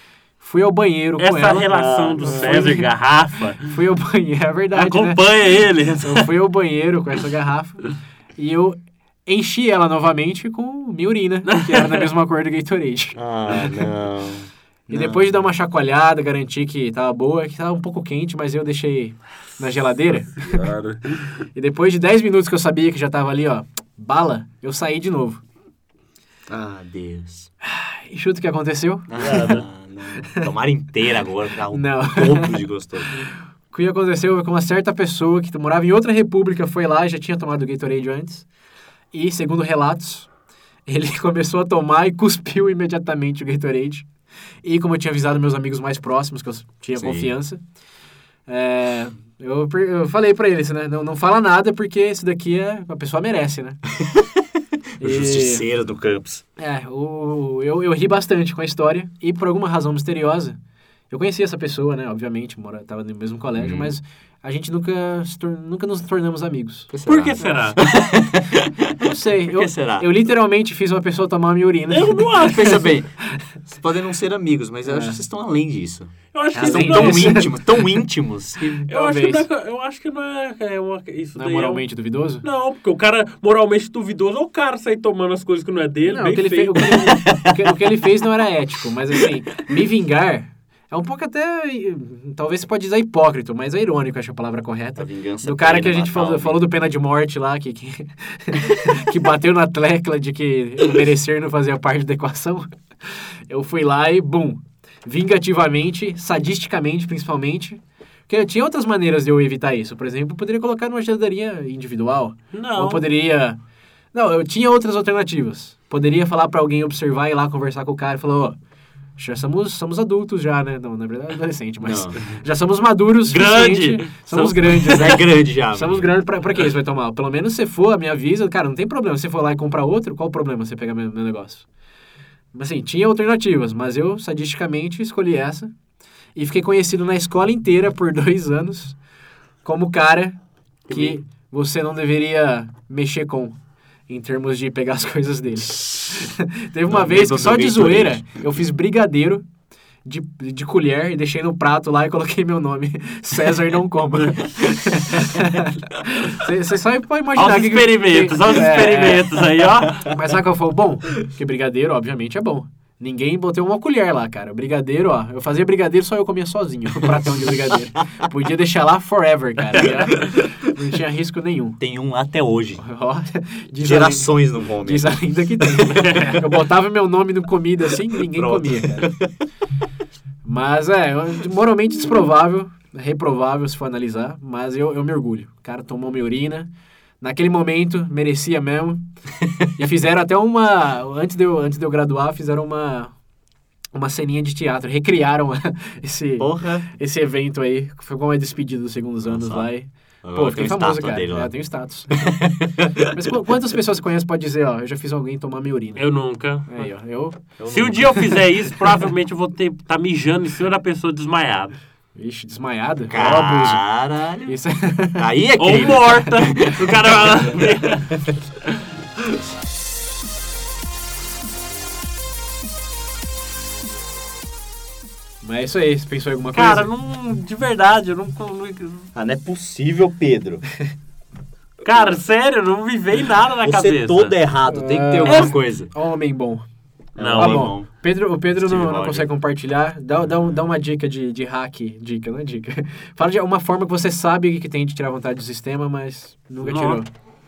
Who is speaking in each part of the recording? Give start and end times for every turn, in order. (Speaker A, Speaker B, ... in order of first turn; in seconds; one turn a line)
Speaker A: 0.4-2.9
Speaker B: 1.2-3.7
Speaker C: 1.6-2.7
Speaker A: 3.6-13.2
Speaker B: 4.7-6.3
Speaker B: 11.5-12.0
Speaker C: 13.1-15.4
Speaker A: 14.9-20.6
Speaker B: 20.4-21.0
Speaker C: 20.5-20.7
Speaker A: 21.5-25.4
Speaker C: 26.5-27.5
Speaker A: 27.6-29.6
Speaker C: 29.1-33.1
Speaker B: 29.2-29.6
Speaker A: 31.7-38.5
Speaker A: 39.1-40.3
Speaker A: 40.9-44.1
Speaker A: 44.6-47.6
Speaker C: 46.9-47.3
Speaker A: 48.5-53.8
Speaker C: 54.1-54.4
Speaker A: 55.0-55.6
Speaker C: 55.0-56.4
Speaker A: 56.6-60.6
Speaker A: 61.1-66.9
Speaker C: 63.5-63.9
Speaker C: 66.9-70.1
Speaker B: 67.1-67.8
Speaker A: 69.0-72.9
Speaker B: 71.9-73.0
Speaker C: 72.4-78.7
Speaker A: 74.8-75.2
Speaker B: 76.3-77.4
Speaker A: 76.5-77.9
Speaker A: 78.5-79.5
Speaker B: 78.9-81.8
Speaker A: 81.3-82.4
Speaker B: 82.4-87.1
Speaker A: 86.0-113.6
Speaker C: 86.8-87.9
Speaker C: 95.0-96.8
Speaker B: 112.5-113.0
Speaker A: 114.1-118.6
Speaker A: 119.2-131.7
Speaker C: 121.8-122.2
Speaker B: 123.2-125.1
Speaker C: 124.8-126.2
Speaker A: 132.5-135.7
Speaker A: 136.3-139.0
Speaker A: 139.6-143.6
Speaker B: 140.9-141.2
Speaker A: 144.1-149.4
Speaker C: 146.9-148.4
Speaker A: 150.0-159.3
Speaker B: 157.3-160.1
Speaker A: 160.0-171.8
Speaker C: 170.1-170.5
Speaker C: 171.8-172.8
Speaker A: 172.8-179.1
Speaker C: 173.8-175.8
Speaker B: 175.9-176.3
Speaker C: 178.2-179.3
Speaker A: 180.4-189.1
Speaker A: 189.7-193.1
Speaker A: 193.9-202.4
Speaker C: 196.4-196.9
Speaker C: 199.2-199.7
Speaker C: 200.2-201.5
Speaker C: 202.2-203.1
Speaker A: 203.1-206.0
Speaker B: 205.9-206.9
Speaker A: 206.6-208.4
Speaker C: 207.6-208.2
Speaker B: 207.7-211.8
Speaker A: 212.1-213.8
Speaker C: 213.1-214.6
Speaker B: 213.1-213.5
Speaker A: 214.4-215.2
Speaker C: 215.1-218.3
Speaker B: 215.6-218.2
Speaker A: 225.4-226.9
Speaker B: 226.5-229.1
Speaker C: 229.1-230.6
Speaker B: 231.8-234.3
Speaker C: 233.6-235.9
Speaker A: 234.7-236.6
Speaker B: 235.2-235.6
Speaker B: 237.2-237.7
Speaker C: 237.2-237.9
Speaker A: 237.3-247.1
Speaker C: 238.5-239.3
Speaker B: 246.6-247.0